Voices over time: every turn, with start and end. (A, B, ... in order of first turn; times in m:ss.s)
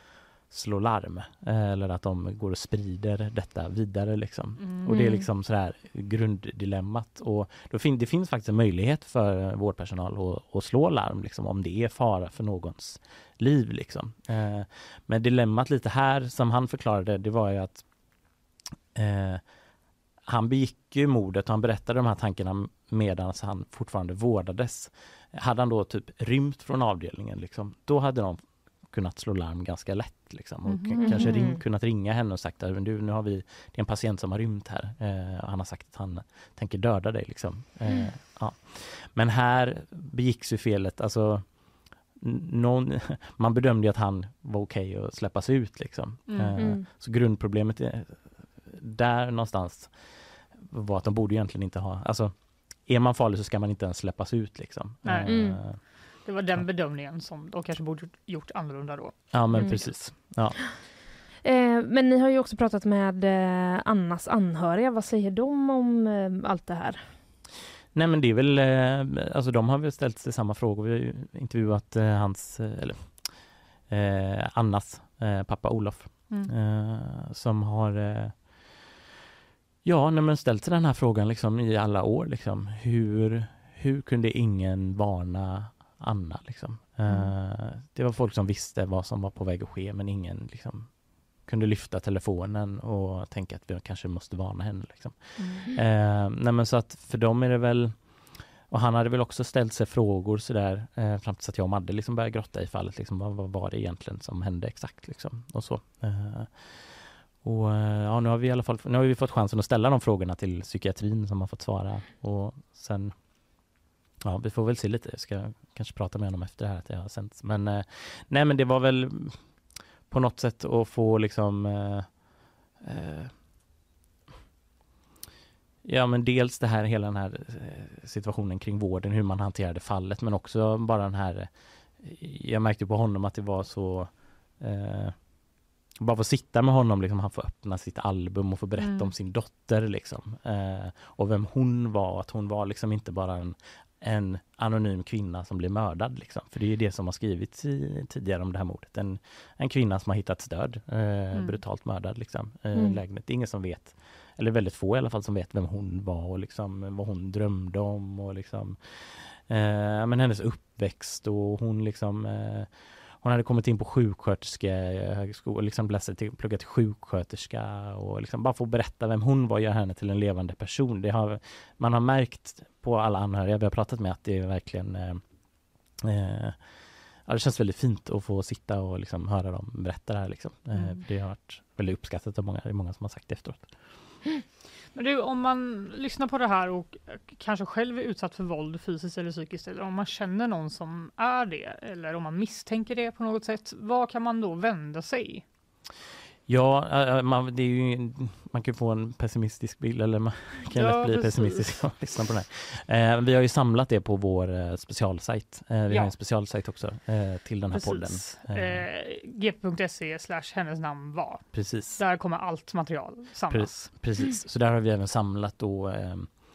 0:00.5-0:17.8 A
0:04.9-0:05.2 B
0:18.9-0:19.4 A
0:20.3-0:41.5 A
0:30.7-0:31.4 C
0:31.0-0:31.6 B
0:42.2-0:49.9 A
0:46.3-0:46.6 C
0:50.6-0:55.8 A
0:55.2-0:55.6 B
0:56.2-0:59.9 C
0:59.3-1:00.6 A
1:01.4-1:07.0 B
1:07.9-1:13.3 A
1:13.9-1:18.6 A
1:19.8-1:46.8 A
1:27.1-1:27.3 C
1:35.4-1:35.7 C
1:47.4-1:53.1 A
1:54.2-1:59.4 A
2:00.1-2:02.1 A
2:02.8-2:03.3 A
2:05.8-2:15.2 A
2:16.0-2:38.8 A
2:18.8-2:19.1 C
2:31.3-2:31.6 C
2:39.5-2:42.7 A
2:43.2-2:55.2 A
2:56.0-2:56.6 A
2:57.2-3:03.7 A
3:00.7-3:01.0 C
3:04.9-3:15.4 C
3:16.5-3:28.8 A
3:20.7-3:21.8 C
3:27.7-3:31.4 C
3:31.5-3:32.0 A
3:32.0-3:33.9 C
3:33.5-3:36.3 A